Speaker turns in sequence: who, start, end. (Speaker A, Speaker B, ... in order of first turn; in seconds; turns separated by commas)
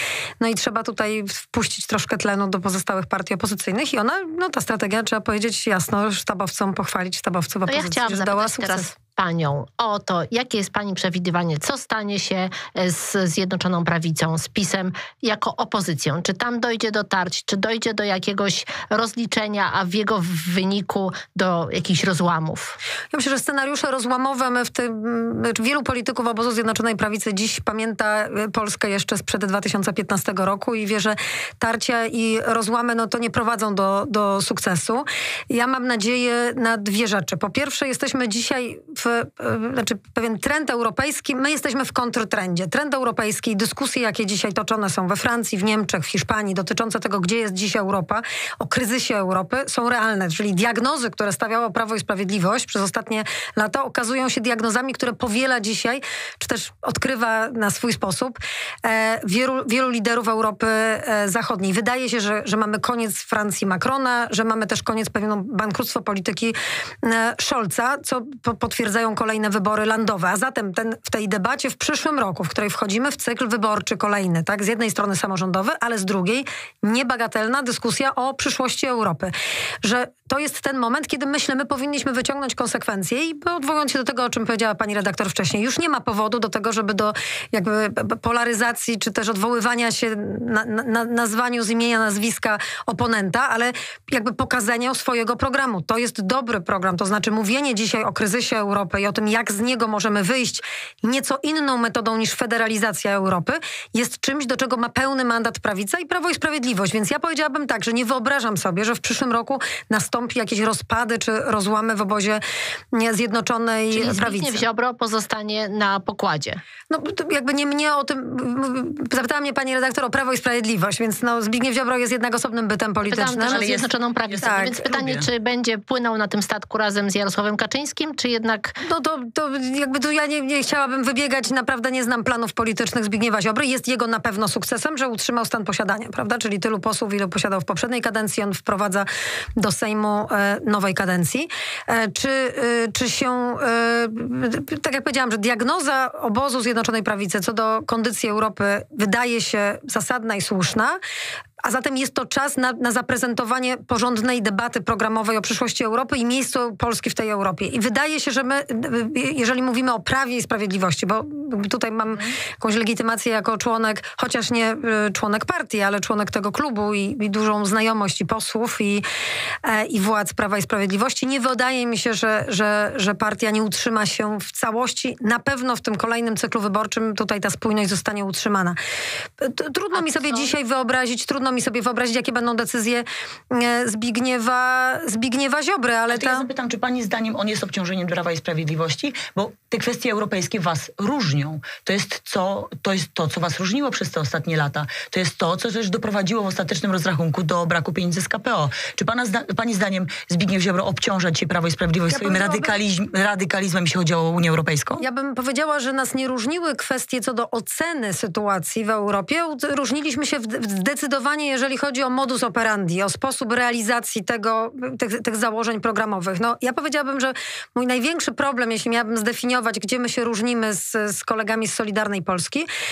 Speaker A: 0.4-8.9, Speaker B: 7.7-22.8, Speaker A: 23.1-114.6, Speaker B: 113.9-116.6, Speaker A: 116.9-123.7, Speaker B: 123.0-128.8, Speaker C: 123.5-125.3, Speaker A: 124.4-124.8, Speaker A: 128.8-151.0, Speaker A: 151.6-169.0, Speaker A: 169.6-178.8, Speaker A: 179.4-186.5, Speaker B: 179.9-180.5, Speaker C: 186.1-205.0, Speaker A: 202.1-202.8, Speaker A: 205.0-222.7